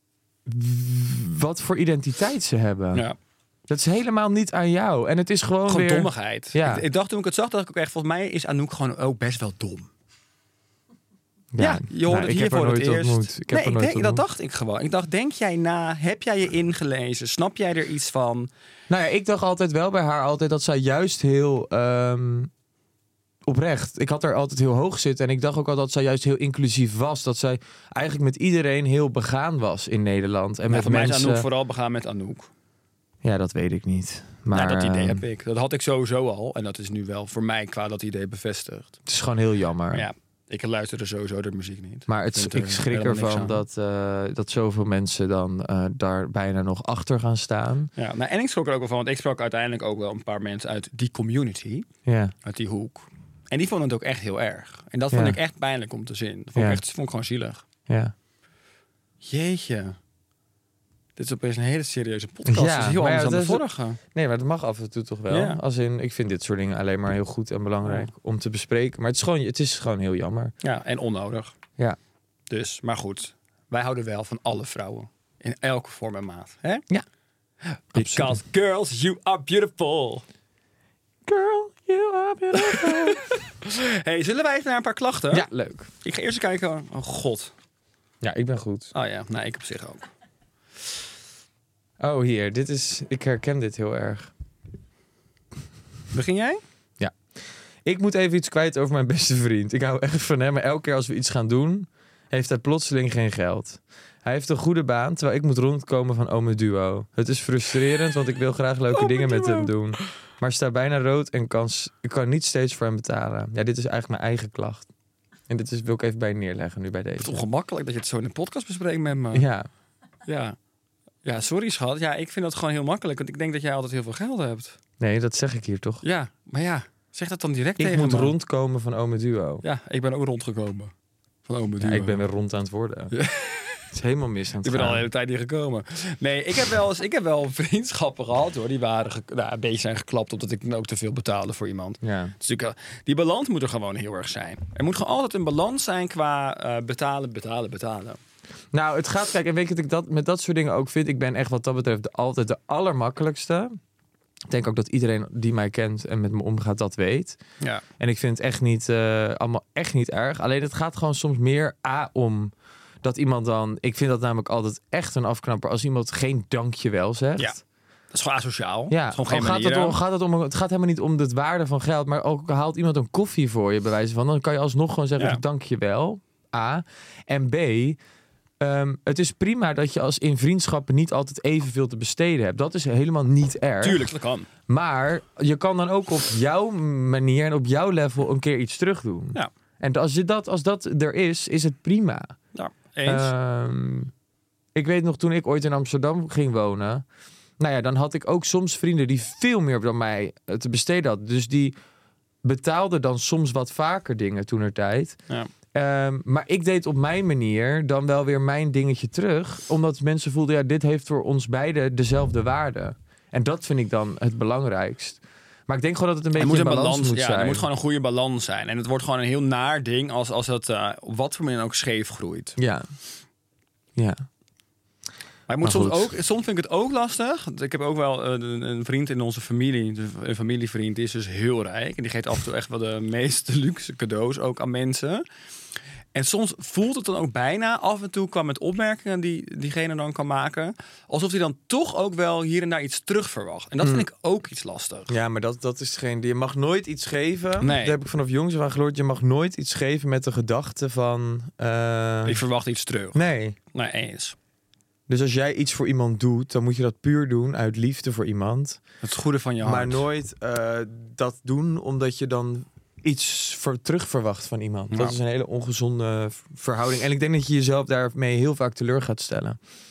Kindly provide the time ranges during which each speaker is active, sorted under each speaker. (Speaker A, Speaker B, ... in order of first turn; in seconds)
Speaker A: 0.5-3.1, 3.7-6.8, 11.5-14.2, 18.9-22.5, 23.4-31.5, 33.2-35.2, 39.1-40.1, 42.1-47.9, 52.0-52.3, 55.1-55.4, 56.5-56.8, 57.9-58.1, 62.5-70.5, 77.9-78.4, 81.3-83.2, 85.3-85.9, 88.2-88.9, 92.0-94.3, 97.8-114.9, 115.5-117.4, 119.3-119.7, 125.0-126.0, 127.8-129.6, 131.8-133.1, 133.9-135.1, 142.0-142.3, 148.7-153.8, 154.5-157.4, 158.0-167.6, 168.9-178.0, 178.6-184.1, 184.7-192.4, 193.1-194.1, 194.8-197.1, 197.6-201.8, 202.4-205.2, 205.7-217.7, 222.6-222.9, 224.0-224.3, 225.6-226.1, 243.8-244.1, 245.1-252.4, 253.1-253.6, 255.1-258.8, 259.6-269.6
Speaker B: 5.7-9.9, 11.6-18.5, 30.7-32.5, 34.5-39.0, 39.9-43.6, 48.0-51.9, 52.4-57.6, 59.2-60.0, 61.2-64.0, 65.3-65.6, 67.8-68.1, 70.6-71.5, 72.5-76.8, 77.9-80.2, 82.6-85.5, 86.0-87.5, 88.9-90.1, 96.1-96.6, 108.9-109.7, 117.2-119.5, 120.3-120.6, 121.2-124.8, 126.0-128.3, 129.6-130.9, 131.5-132.2, 133.1-133.8, 134.6-148.2, 168.1-170.0, 175.2-175.4, 183.8-184.5, 192.5-193.3, 216.4-222.6, 225.5-235.2, 236.1-245.1, 247.6-248.0, 252.2-253.2, 253.7-254.4, 259.0-260.0, 264.9-265.2